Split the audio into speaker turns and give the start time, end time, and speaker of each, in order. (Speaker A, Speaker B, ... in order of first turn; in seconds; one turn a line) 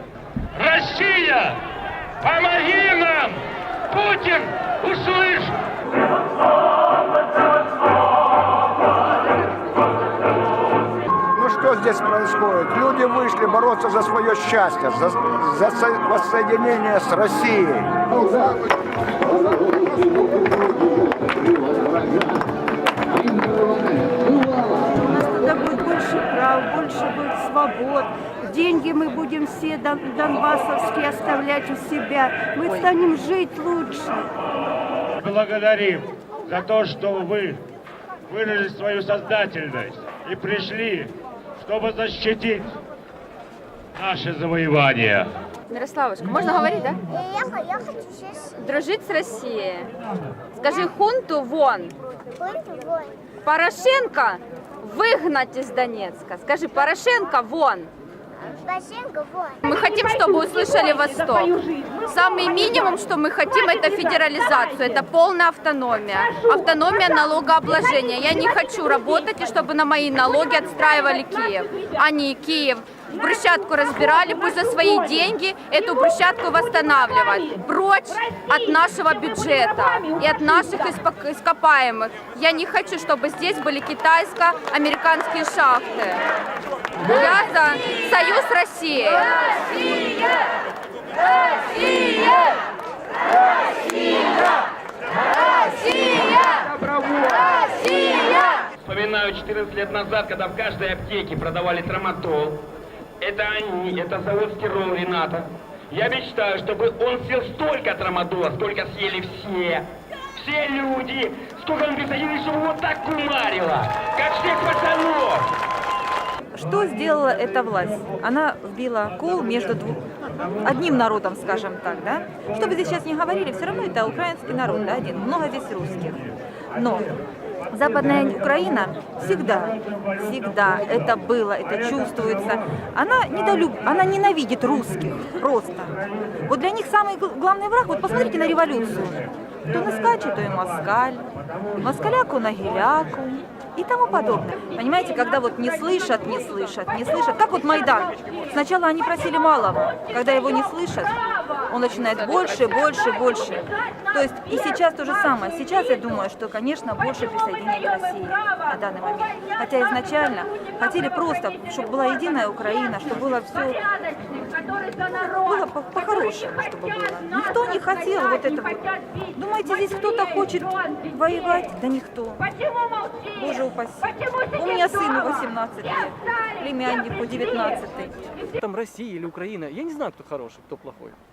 Speaker A: 0.5-1.6
Speaker A: 2.2-5.6
Speaker B: 11.3-18.0
Speaker C: 25.0-34.2
Speaker A: 35.2-37.6
Speaker A: 38.3-42.7
Speaker A: 44.0-45.3
Speaker D: 45.7-47.0
Speaker E: 47.2-48.3
Speaker D: 48.4-49.9
Speaker D: 50.5-52.0
Speaker E: 52.4-53.1
Speaker D: 53.4-57.9
Speaker E: 58.6-59.5
Speaker D: 59.6-86.2
Speaker D: 87.0-90.3
Speaker D: 91.5-92.5
Speaker D: 95.6-96.2
Speaker F: 98.9-102.4
Speaker F: 103.2-105.3
Speaker F: 106.0-109.8
Speaker F: 110.4-115.4
Speaker G: 116.5-127.1
Speaker G: 127.7-135.9
Speaker G: 136.5-163.9
Speaker G: 164.8-172.5
Speaker G: 173.3-178.2
Speaker H: 178.5-181.2